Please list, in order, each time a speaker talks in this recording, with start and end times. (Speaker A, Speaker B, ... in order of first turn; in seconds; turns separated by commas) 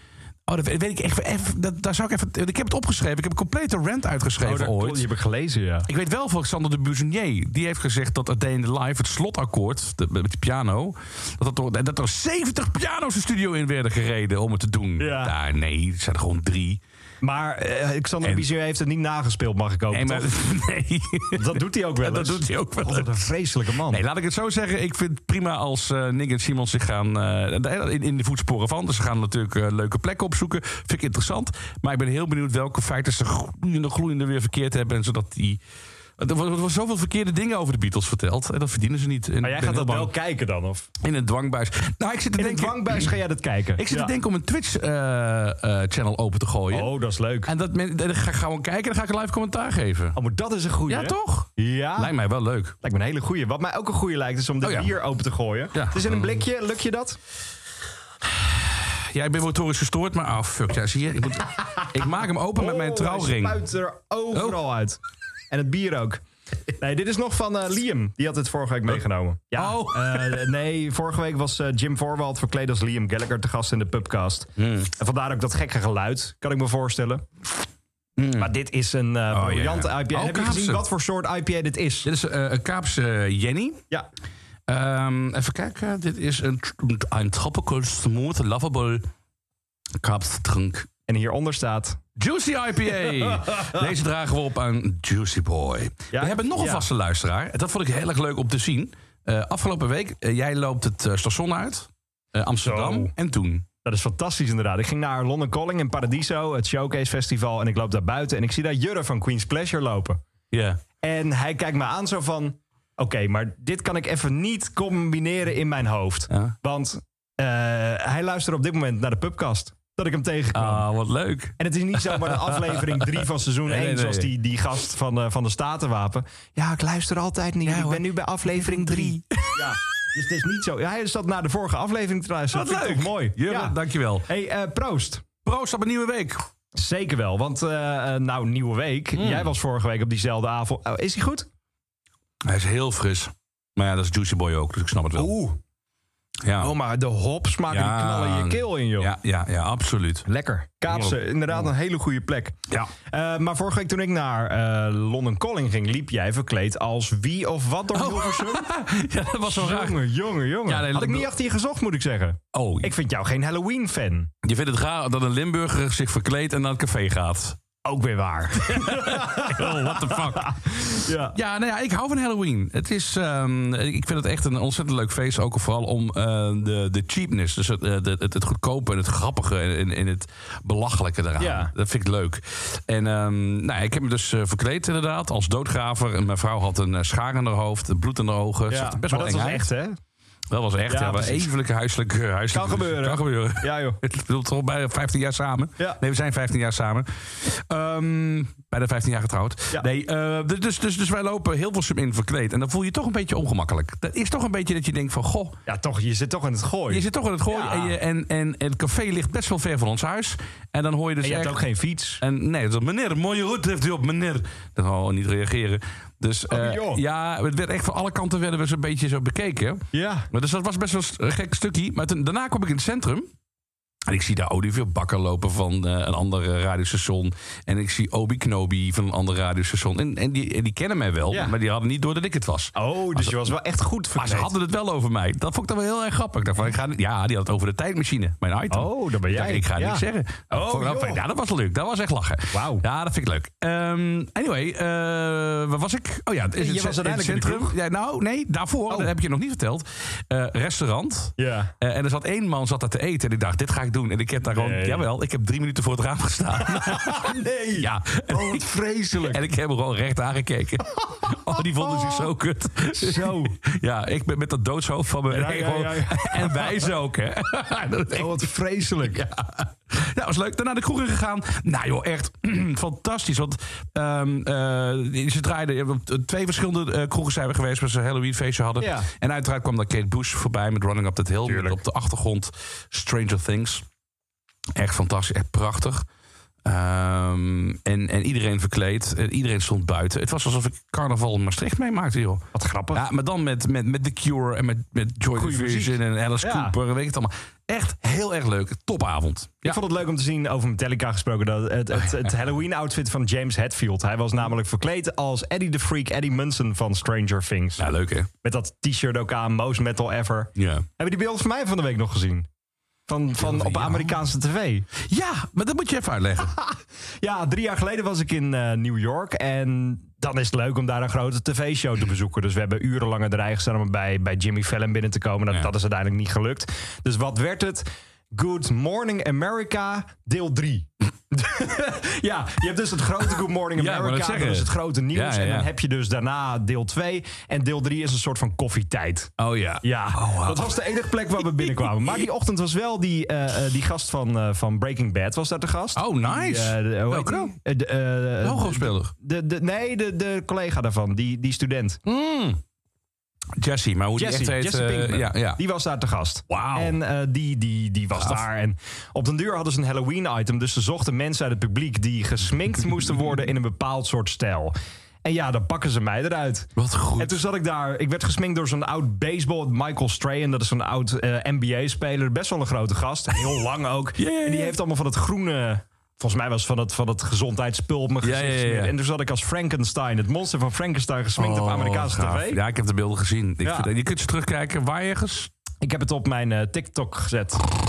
Speaker A: 0.5-5.0, Speaker B: 4.4-5.9, Speaker A: 5.9-16.8, Speaker B: 15.0-15.3, Speaker B: 17.2-20.3, Speaker A: 19.9-23.2, Speaker B: 21.3-24.0, Speaker A: 23.9-35.6, Speaker A: 36.2-40.1, Speaker B: 39.4-40.9, Speaker A: 41.0-43.2, Speaker B: 42.4-44.1, Speaker A: 43.8-46.9, Speaker B: 46.7-47.5, Speaker A: 47.5-50.2, Speaker B: 50.1-52.1, Speaker A: 50.9-52.8, Speaker B: 52.8-57.2, Speaker A: 54.6-55.0, Speaker A: 55.7-56.4, Speaker A: 58.2-63.6, Speaker B: 62.5-65.0, Speaker A: 64.3-64.6, Speaker B: 65.5-66.2, Speaker B: 66.8-77.2, Speaker A: 69.5-70.5, Speaker A: 74.6-74.9, Speaker A: 78.2-78.5, Speaker B: 78.3-82.1, Speaker A: 79.3-80.8, Speaker A: 82.0-83.8, Speaker A: 84.7-89.0, Speaker A: 90.0-90.9, Speaker B: 91.1-92.0, Speaker A: 92.2-103.7, Speaker B: 93.1-93.8, Speaker B: 96.1-96.9, Speaker B: 102.6-103.1, Speaker B: 103.8-110.2, Speaker A: 110.5-110.8, Speaker B: 111.0-120.8, Speaker A: 116.3-116.5, Speaker A: 120.5-124.3, Speaker B: 121.6-135.2, Speaker A: 127.6-129.7, Speaker A: 132.5-134.2, Speaker A: 135.4-136.4, Speaker B: 136.7-141.5, Speaker A: 139.1-139.5, Speaker A: 142.4-145.3, Speaker B: 145.2-145.6, Speaker A: 146.4-146.7, Speaker B: 146.6-149.1, Speaker A: 147.7-150.2, Speaker B: 150.2-152.5, Speaker A: 150.9-151.7, Speaker B: 153.1-158.7, Speaker A: 157.9-160.1, Speaker B: 159.4-164.3, Speaker A: 160.6-161.3, Speaker A: 162.5-162.9, Speaker A: 164.4-167.6, Speaker B: 167.8-171.3, Speaker A: 168.6-189.7, Speaker B: 181.4-181.7, Speaker B: 188.7-190.0, Speaker A: 190.5-205.6, Speaker B: 190.9-191.5, Speaker B: 192.5-194.0, Speaker B: 205.7-208.0, Speaker A: 206.9-211.6, Speaker B: 211.2-212.2, Speaker A: 212.2-223.3, Speaker B: 216.5-217.0, Speaker B: 219.9-220.3, Speaker A: 224.1-233.5, Speaker B: 232.8-234.5, Speaker A: 234.2-268.5, Speaker B: 238.7-241.2, Speaker B: 242.5-242.8, Speaker B: 246.6-247.7, Speaker B: 251.4-251.7, Speaker B: 254.4-255.1, Speaker B: 256.6-259.4, Speaker B: 261.9-262.2, Speaker B: 262.9-263.6, Speaker B: 265.3-266.9, Speaker B: 268.1-269.2, Speaker A: 269.0-283.8, Speaker B: 278.8-279.1, Speaker B: 281.4-281.8, Speaker A: 284.7-286.0, Speaker A: 286.6-299.8, Speaker B: 292.5-293.0, Speaker B: 295.3-296.7, Speaker B: 299.6-307.9, Speaker A: 301.9-302.3, Speaker A: 307.8-308.3, Speaker B: 308.4-312.5, Speaker A: 310.6-310.9, Speaker B: 313.1-314.9, Speaker A: 313.4-314.2, Speaker A: 315.0-316.5, Speaker B: 316.5-352.0, Speaker A: 333.8-335.7, Speaker A: 339.4-340.8, Speaker A: 341.4-342.3, Speaker A: 345.9-347.5, Speaker A: 348.4-349.1, Speaker A: 352.1-352.6, Speaker A: 353.6-355.6, Speaker B: 354.2-364.7, Speaker A: 356.5-357.0, Speaker A: 358.2-358.4, Speaker B: 365.2-382.6, Speaker A: 366.8-367.4, Speaker A: 374.2-374.8, Speaker A: 378.2-378.9, Speaker A: 381.4-385.5, Speaker B: 383.6-383.9, Speaker B: 385.8-387.7